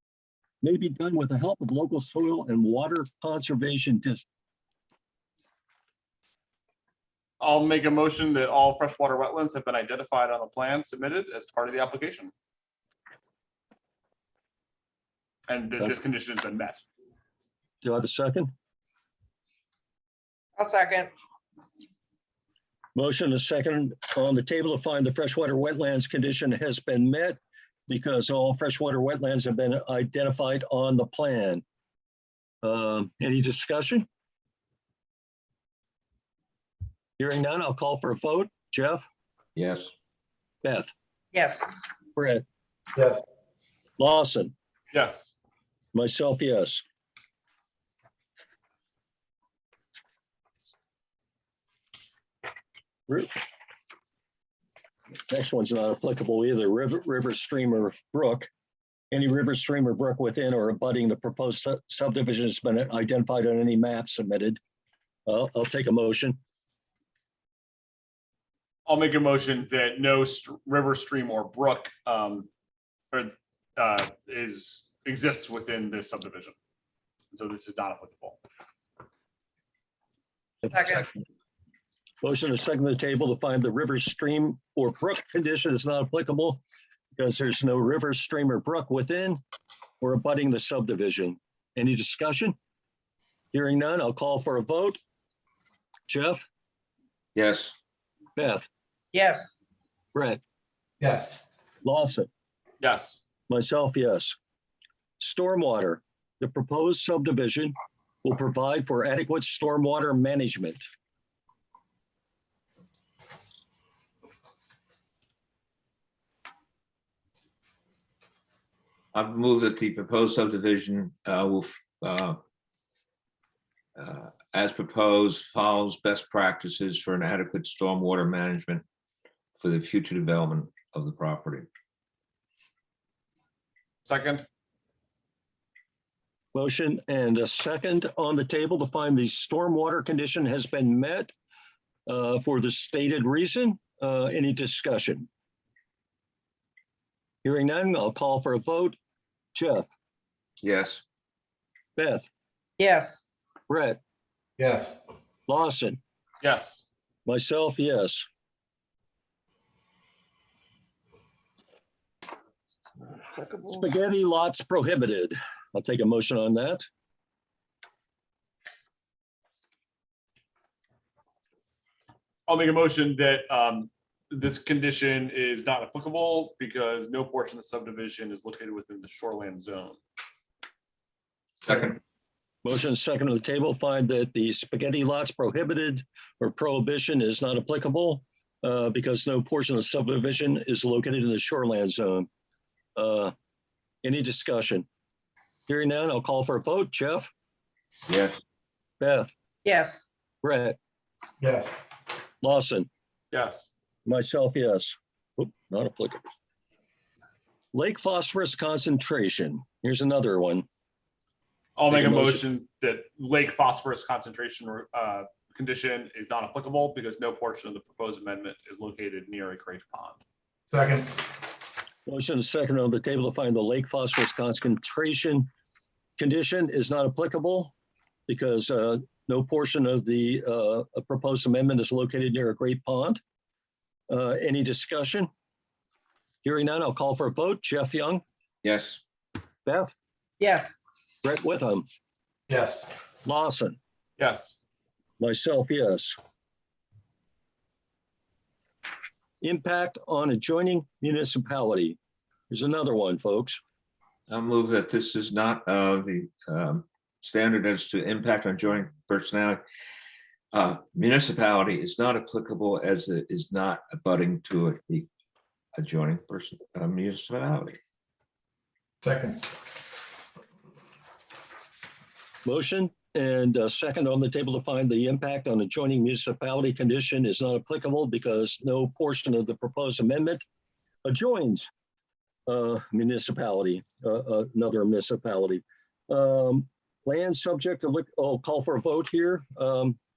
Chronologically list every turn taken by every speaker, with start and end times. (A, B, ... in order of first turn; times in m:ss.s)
0:00.6-0:04.3 A
0:07.4-0:12.3 B
0:15.5-0:16.8 B
0:17.8-0:18.5 A
0:20.6-0:21.1 C
0:23.0-0:31.6 A
0:32.6-0:34.0 A
0:37.2-0:39.0 A
0:39.6-0:39.9 D
0:40.6-0:40.9 A
0:41.3-0:41.6 C
0:42.2-0:42.4 A
0:43.0-0:43.2 E
0:44.0-0:44.5 A
0:44.9-0:45.3 B
0:45.9-0:46.8 A
0:55.3-0:58.5 A
0:59.1-1:04.6 A
1:05.3-1:06.4 A
1:08.8-1:12.5 B
1:13.1-1:16.6 B
1:17.3-1:18.4 B
1:20.6-1:21.1 A
1:22.2-1:26.6 A
1:27.2-1:29.4 A
1:30.0-1:32.6 A
1:33.5-1:35.0 A
1:36.1-1:36.4 A
1:37.3-1:37.8 D
1:38.4-1:38.7 A
1:39.1-1:39.5 C
1:40.1-1:40.4 A
1:41.0-1:41.4 E
1:41.8-1:42.3 A
1:42.8-1:43.2 B
1:43.5-1:44.4 A
1:45.2-1:50.8 A
1:59.1-2:02.4 D
2:04.0-2:08.8 D
2:09.6-2:11.7 D
2:14.0-2:14.5 B
2:16.5-2:21.3 A
2:22.1-2:25.3 A
2:27.4-2:29.0 A
2:29.5-2:29.9 A
2:30.6-2:31.0 D
2:32.0-2:32.3 A
2:32.8-2:33.2 C
2:33.7-2:34.0 A
2:34.6-2:35.0 E
2:35.5-2:36.0 A
2:36.4-2:36.8 B
2:37.2-2:38.3 A
2:43.6-2:46.9 A
2:52.5-3:00.0 B
3:02.6-3:12.3 A
3:13.0-3:13.3 A
3:14.0-3:14.9 A
3:15.7-3:17.3 A
3:18.1-3:18.4 D
3:19.0-3:19.3 A
3:19.7-3:20.0 C
3:20.4-3:20.8 A
3:21.4-3:21.8 E
3:22.4-3:22.9 A
3:23.3-3:23.7 B
3:24.1-3:26.3 A
3:27.7-3:30.7 A
3:31.8-3:40.2 B
3:31.9-3:32.4 A
3:40.7-3:41.2 E
3:42.1-3:45.5 A
3:46.2-3:47.7 A
3:48.3-3:53.2 A
3:54.1-3:55.3 A
3:56.4-3:58.2 A
3:58.6-3:59.0 D
3:59.7-3:59.9 A
4:00.4-4:00.7 C
4:01.2-4:01.9 A
4:02.5-4:02.9 E
4:03.2-4:03.8 A
4:04.2-4:04.6 B
4:05.2-4:06.2 A
4:09.4-4:12.0 A
4:12.5-4:13.6 A
4:14.3-4:19.6 D
4:20.5-4:25.1 D
4:25.8-4:27.8 D
4:29.0-4:29.5 E
4:32.4-4:40.4 A
4:41.0-4:41.7 A
4:42.5-4:50.0 A